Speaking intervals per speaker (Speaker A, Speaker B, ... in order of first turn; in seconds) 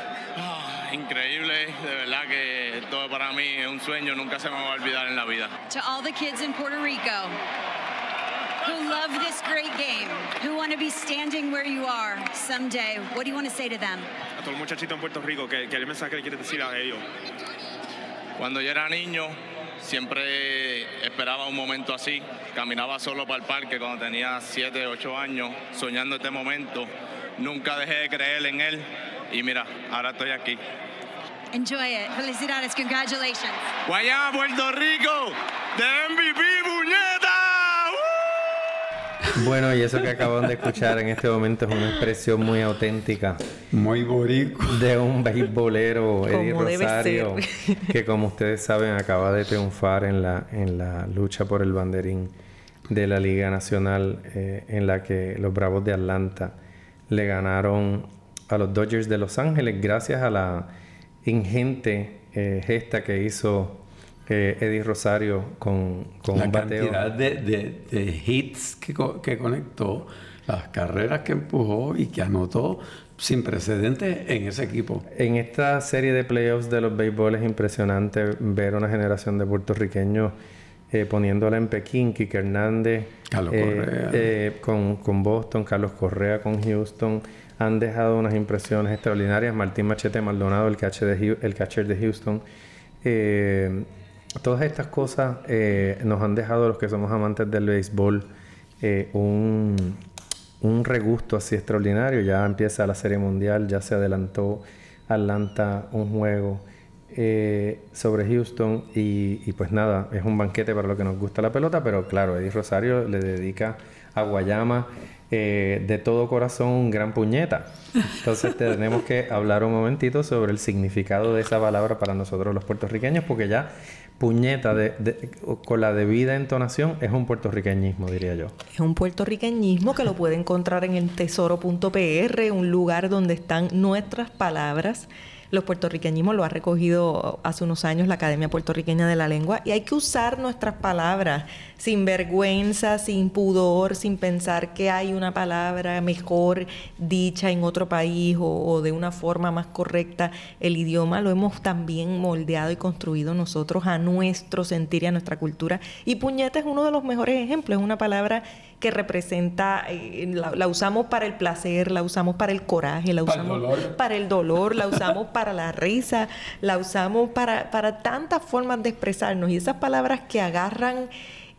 Speaker A: 0.3-5.5, 18.4-30.6, 33.8-38.6
Speaker B: 5.7-7.3, 8.6-14.1, 31.5-33.7
Speaker C: 14.4-17.0
Speaker D: 39.3-43.4, 44.7-52.3, 52.9-56.5, 57.1-60.7, 61.2-67.0, 75.1-80.3, 80.9-92.4, 93.0-93.9, 94.4-98.3, 98.8-100.0, 100.6-128.6
Speaker E: 43.7-44.9, 66.3-75.0, 83.3-84.3, 163.2-164.0
Speaker F: 46.3-47.9, 128.7-171.1